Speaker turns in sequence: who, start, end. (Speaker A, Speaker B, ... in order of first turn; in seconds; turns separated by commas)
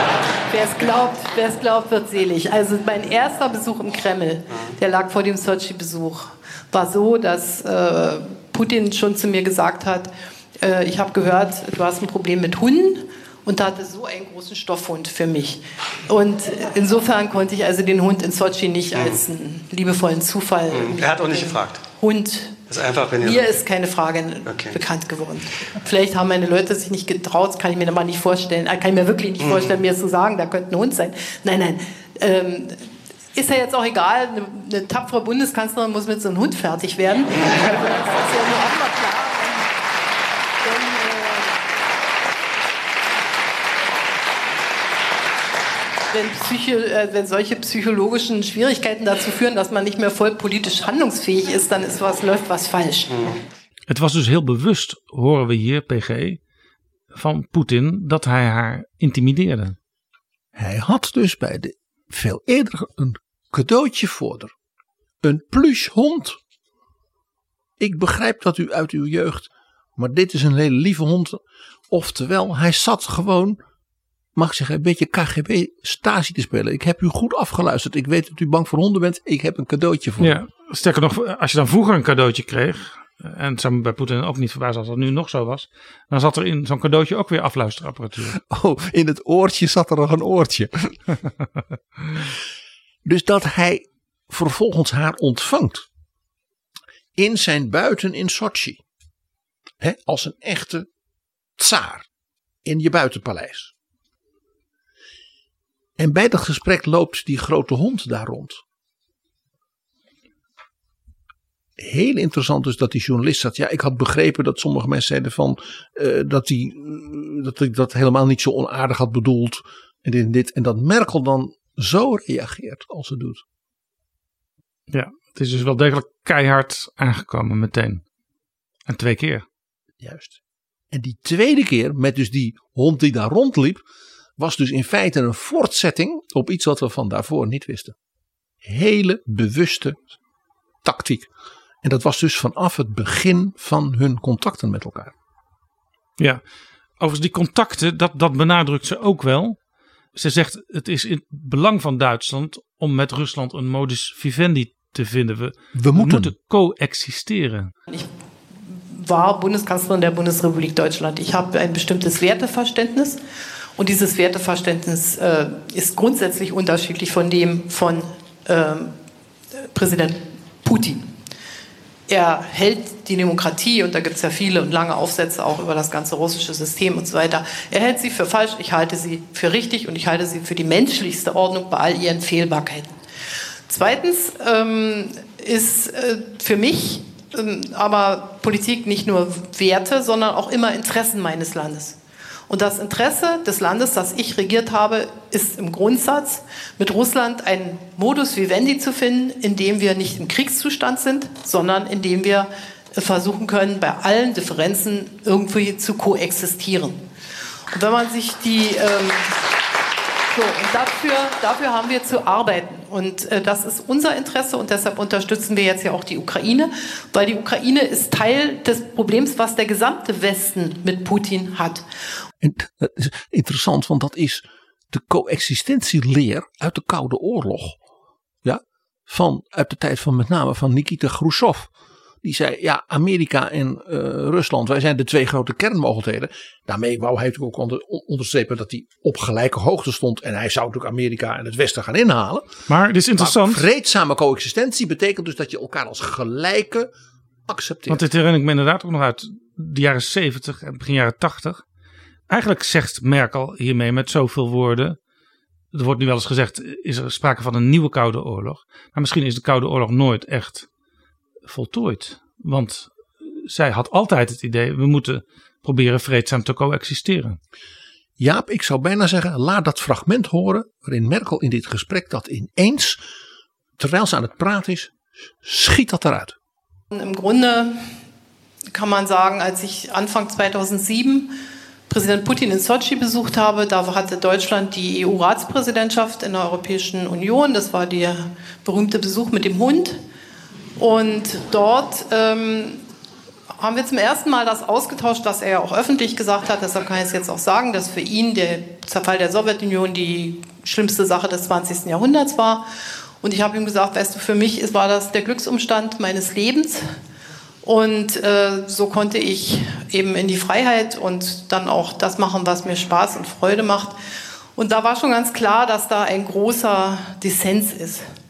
Speaker A: 0.5-10.1, Speaker A: 10.6-22.6, Speaker B: 18.9-19.2, Speaker B: 20.7-21.8, Speaker B: 22.7-23.5, Speaker A: 23.2-32.8, Speaker B: 24.4-24.8, Speaker B: 29.4-29.8, Speaker A: 33.3-39.7, Speaker A: 40.6-41.5, Speaker A: 46.1-53.4, Speaker C: 53.9-56.4, Speaker C: 57.1-59.8, Speaker D: 60.5-64.5, Speaker D: 65.2-66.4, Speaker D: 67.8-73.6, Speaker D: 74.3-80.4, Speaker C: 80.2-88.3, Speaker D: 88.3-91.0, Speaker D: 93.0-95.8, Speaker D: 97.2-98.8, Speaker D: 99.8-100.9, Speaker D: 101.6-102.1, Speaker D: 102.6-103.7, Speaker D: 106.0-108.6, Speaker D: 111.8-123.4, Speaker C: 124.9-128.0, Speaker C: 128.9-129.4, Speaker D: 130.0-130.4, Speaker D: 130.9-133.8, Speaker D: 134.4-137.9, Speaker D: 138.6-140.2, Speaker D: 140.8-141.3, Speaker D: 141.8-145.1, Speaker C: 147.0-149.6, Speaker C: 150.1-157.7, Speaker D: 155.7-156.3, Speaker A: 158.6-163.2, Speaker A: 163.8-168.9, Speaker A: 169.6-171.0, Speaker A: 172.1-182.9, Speaker A: 183.7-192.0, Speaker A: 192.5-207.0, Speaker A: 207.7-209.3, Speaker A: 210.3-221.8, Speaker D: 222.4-227.8, Speaker D: 228.4-231.7, Speaker D: 232.2-242.5, Speaker C: 242.7-243.6, Speaker D: 243.2-246.9, Speaker D: 247.5-248.0, Speaker C: 247.9-251.6, Speaker C: 252.3-255.0, Speaker C: 255.7-260.7, Speaker C: 261.4-267.4, Speaker D: 268.2-273.0, Speaker D: 273.8-276.4, Speaker A: 276.9-277.8, Speaker A: 278.7-281.3, Speaker A: 281.9-290.0, Speaker A: 290.8-292.8, Speaker A: 293.6-302.6, Speaker A: 303.2-306.9, Speaker A: 307.6-313.9, Speaker A: 314.6-318.0